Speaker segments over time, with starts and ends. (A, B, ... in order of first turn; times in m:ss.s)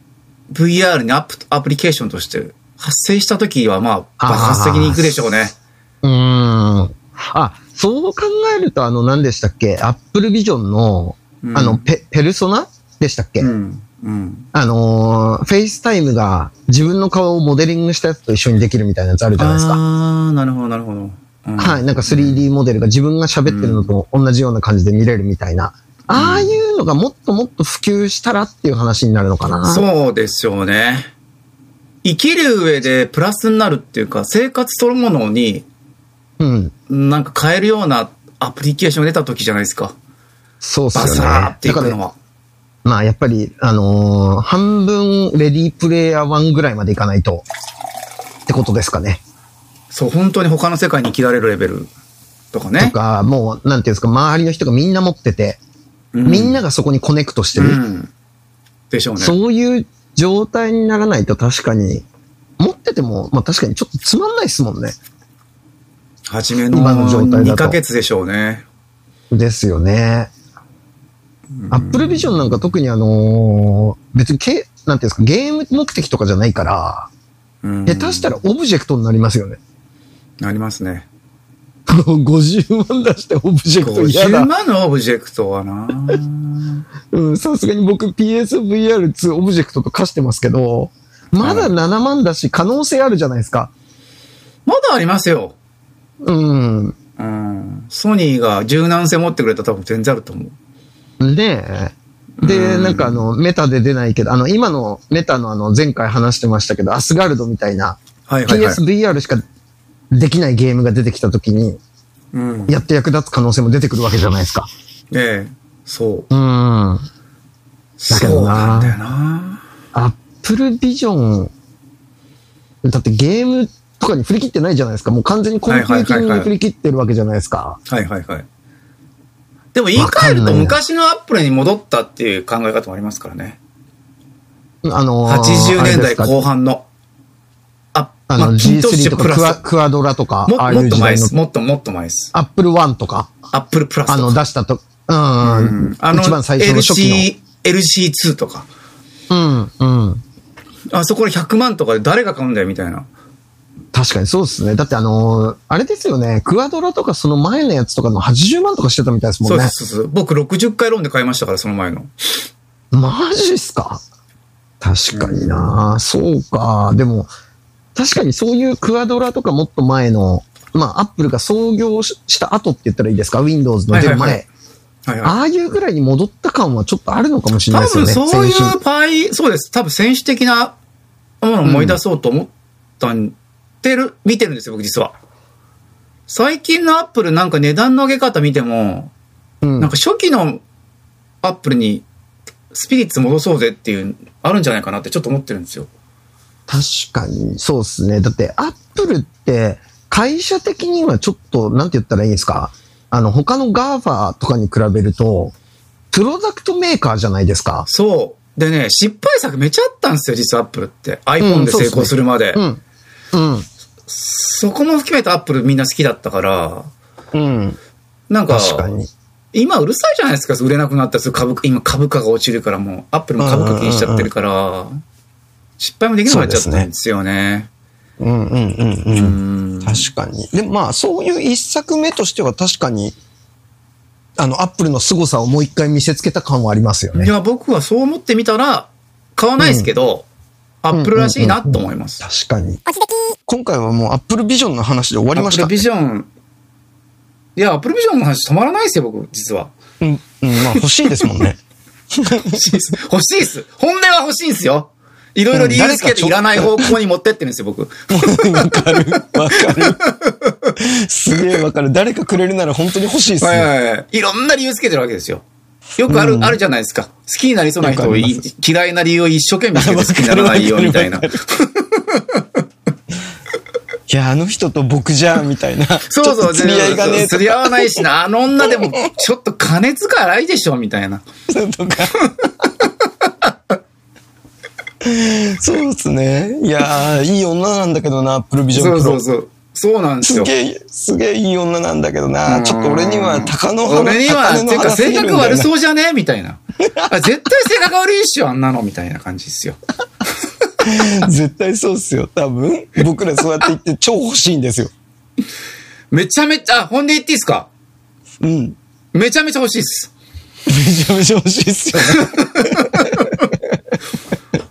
0:00.5-0:05.5 A
0:04.2-0:05.1 B
0:06.0-0:13.5 B
0:11.4-0:11.9 A
0:13.4-0:14.4 A
0:14.5-0:19.8 B
0:19.4-0:22.5 A
0:21.6-0:29.8 B
0:23.4-0:23.9 A
0:26.1-0:26.6 A
0:29.6-0:31.1 A
0:32.0-0:35.7 A
0:36.4-0:36.7 B
0:36.9-0:39.9 A
0:40.6-0:42.0 B
0:40.9-0:42.1 A
0:42.8-0:47.4 B
0:48.5-0:49.2 B
0:49.9-0:51.9 A
0:52.5-0:52.9 A
0:52.8-0:55.6 B
0:56.1-0:56.6 A
0:56.2-0:57.8 B
0:57.6-0:58.1 A
0:58.9-0:59.4 A
0:59.2-1:02.0 B
1:02.6-1:05.0 B
1:06.3-1:08.6 A
1:06.7-1:07.8 B
1:09.3-1:10.3 B
1:11.5-1:12.6 A
1:11.7-1:17.1 B
1:17.6-1:18.4 A
1:17.9-1:19.6 B
1:20.4-1:21.1 A
1:21.8-1:24.5 B
1:23.8-1:26.8 A
1:27.1-1:33.7 B
1:31.4-1:31.8 A
1:34.6-1:35.6 A
1:36.2-1:37.0 B
1:37.2-1:40.5 A
1:41.2-1:49.4 B
1:42.4-1:43.2 A
1:48.3-1:48.8 A
1:50.1-1:51.8 B
1:52.3-1:52.8 A
1:52.7-1:54.7 B
1:55.1-1:56.3 A
1:56.3-1:57.0 B
1:58.0-1:59.6 A
1:58.1-1:59.0 B
1:59.9-2:01.5 B
2:02.8-2:07.8 B
2:05.7-2:06.5 A
2:07.9-2:08.4 A
2:09.7-2:13.6 A
2:09.9-2:10.8 B
2:14.8-2:16.4 B
2:15.2-2:16.8 A
2:17.9-2:19.6 A
2:18.3-2:21.3 B
2:20.4-2:22.3 A
2:22.3-2:23.3 B
2:23.5-2:24.4 A
2:24.1-2:27.3 B
2:25.4-2:28.7 A
2:29.3-2:30.2 B
2:30.9-2:33.1 A
2:33.9-2:39.7 B
2:39.4-2:42.1 A
2:42.9-2:44.0 B
2:44.8-2:47.3 B
2:45.1-2:45.8 A
2:47.9-2:54.4 B
2:53.9-2:54.4 A
2:55.0-2:55.4 A
2:55.2-2:58.8 B
2:57.7-3:00.8 A
3:01.4-3:05.2 A
3:01.6-3:02.0 B
3:06.3-3:09.1 A
3:09.6-3:09.9 B
3:09.8-3:10.6 A
3:11.4-3:12.0 A
3:12.7-3:15.9 A
3:16.7-3:25.5 B
3:26.1-3:27.9 B
3:27.8-3:32.6 A
3:31.4-3:32.8 B
3:33.3-3:33.7 B
3:34.1-3:36.9 A
3:37.3-3:37.8 B
3:38.3-3:38.9 A
3:38.5-3:39.1 B
3:39.5-3:45.0 A
3:43.4-3:44.3 B
3:45.8-3:47.7 A
3:46.3-3:46.9 B
3:48.2-3:53.2 B
3:49.1-3:50.1 A
3:54.4-3:57.3 B
3:57.1-4:00.3 A
3:59.6-3:59.9 B
4:00.8-4:02.2 A
4:00.9-4:02.8 B
4:03.4-4:05.8 B
4:05.3-4:06.3 A
4:07.6-4:09.7 A
4:10.0-4:11.6 B
4:12.1-4:12.6 B
4:12.3-4:20.5 A
4:15.5-4:16.9 B
4:18.1-4:20.0 B
4:20.8-4:23.7 B
4:23.4-4:25.4 A
4:26.0-4:32.6 A
4:26.1-4:26.6 B
4:27.8-4:28.4 B
4:29.7-4:31.4 B
4:34.1-4:38.0 B
4:36.0-4:41.2 A
4:38.6-4:39.0 B
4:41.5-4:42.2 B
4:42.3-4:43.5 A
4:45.0-4:49.2 B
4:48.7-4:50.5 A
4:50.2-4:55.7 B
4:52.4-4:59.8 A
4:56.9-4:57.4 B
5:00.8-5:04.9 B
5:06.1-5:07.7 A
5:08.4-5:08.8 B
5:09.1-5:10.1 A
5:10.7-5:13.6 B
5:11.9-5:13.5 A